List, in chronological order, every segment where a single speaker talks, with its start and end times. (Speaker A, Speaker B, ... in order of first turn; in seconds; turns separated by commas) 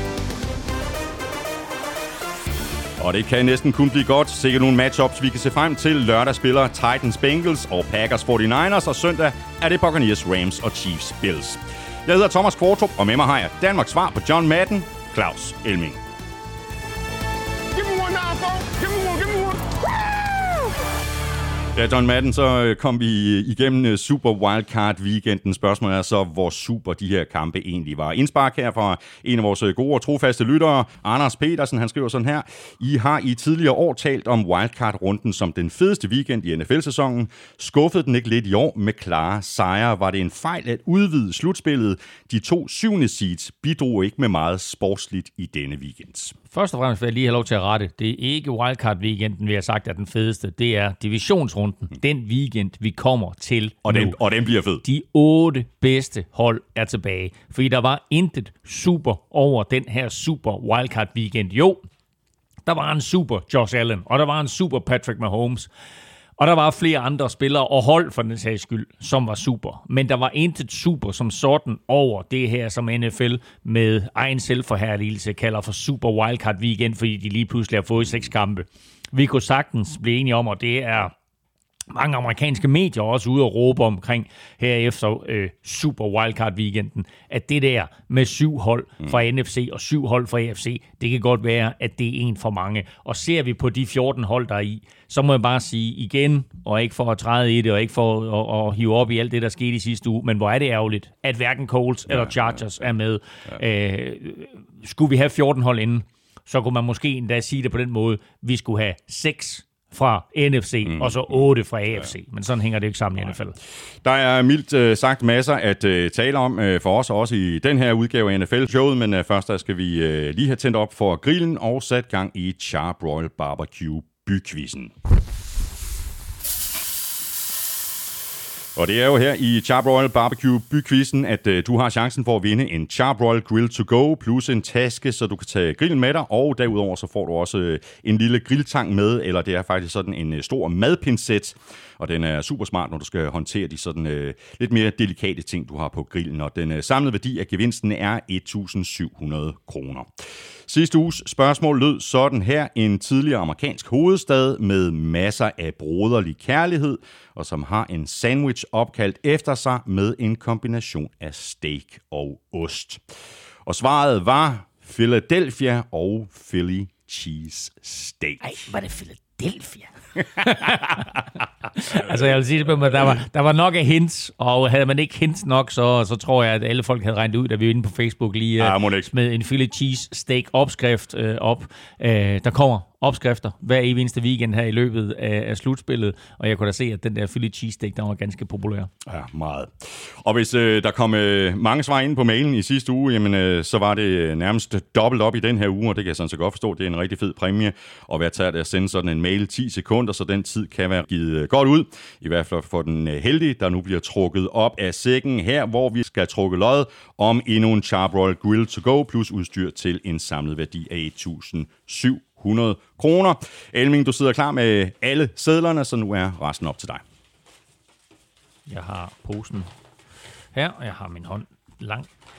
Speaker A: 3.0-16.0, Speaker B: 17.7-20.5, Speaker A: 21.7-46.4, Speaker C: 46.5-54.2, Speaker A: 53.9-54.8, Speaker C: 54.8-61.9, Speaker C: 62.7-65.7, Speaker C: 66.4-81.1, Speaker C: 81.9-113.6, Speaker A: 102.1-102.5, Speaker A: 110.9-111.2, Speaker A: 114.0-124.9, Speaker A: 128.8-150.1, Speaker A: 150.7-163.0, Speaker A: 163.7-168.5, Speaker C: 168.4-171.2, Speaker C: 171.8-188.9, Speaker A: 178.6-179.1, Speaker A: 189.1-217.0, Speaker C: 218.7-219.7, Speaker C: 220.6-222.1